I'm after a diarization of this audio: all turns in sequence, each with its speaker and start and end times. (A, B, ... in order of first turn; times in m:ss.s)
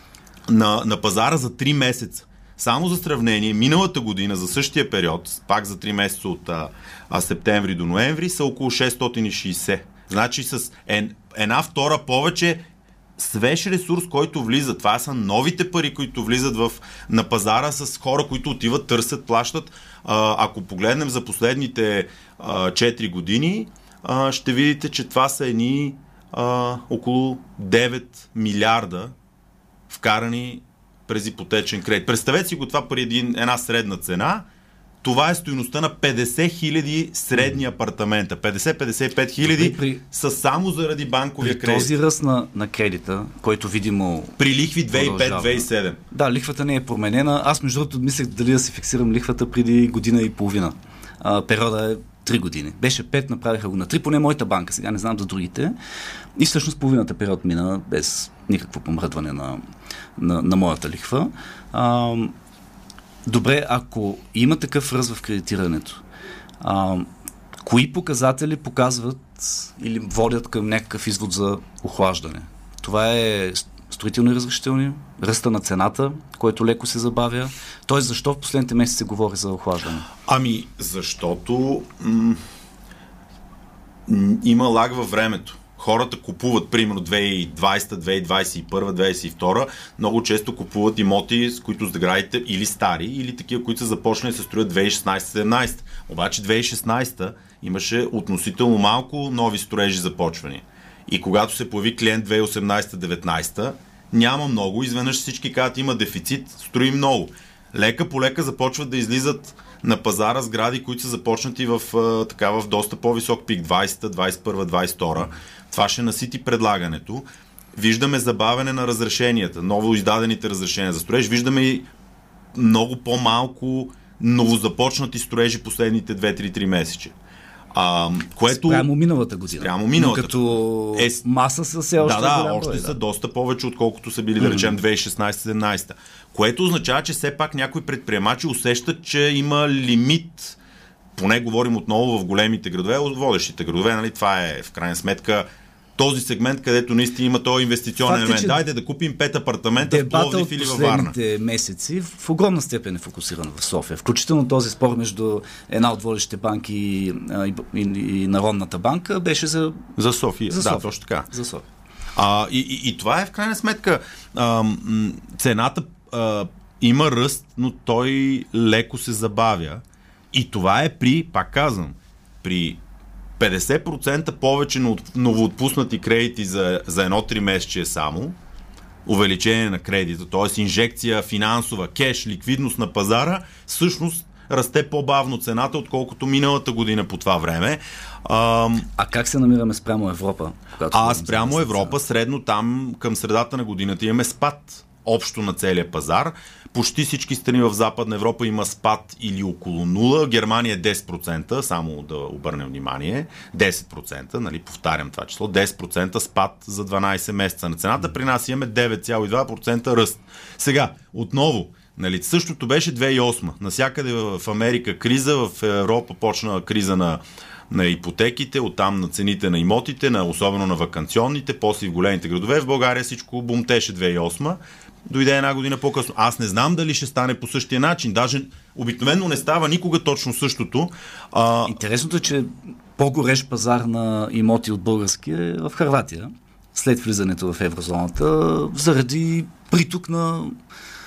0:00.5-0:12.6 A
0:13.2-0:29.1 A
0:29.9-0:34.4 A
0:35.0-0:41.9 A
0:39.4-0:40.0 B
0:41.4-0:44.4 B
0:44.4-0:46.0 A
0:44.9-0:55.7 B
0:56.4-0:59.6 B
1:00.2-1:02.3 B
1:03.3-1:06.0 B
1:06.6-1:07.1 B
1:07.6-1:20.1 B
1:20.3-1:22.4 A
1:24.1-2:01.9 A
2:02.6-2:07.1 A
2:07.7-2:08.9 A
2:08.5-2:13.0 B
2:09.6-2:11.2 A
2:12.0-2:20.6 A
2:14.4-2:14.8 B
2:21.2-2:25.5 A
2:26.0-2:31.2 A
2:28.0-2:28.6 B
2:29.8-2:39.8 B
2:40.0-2:41.3 A
2:40.5-2:41.6 B
2:42.2-2:49.8 A
2:50.3-2:52.8 A
2:53.4-2:58.4 A
2:59.1-3:08.9 A
3:09.0-3:12.0 B
3:10.9-3:51.8 A
3:51.7-4:00.6 B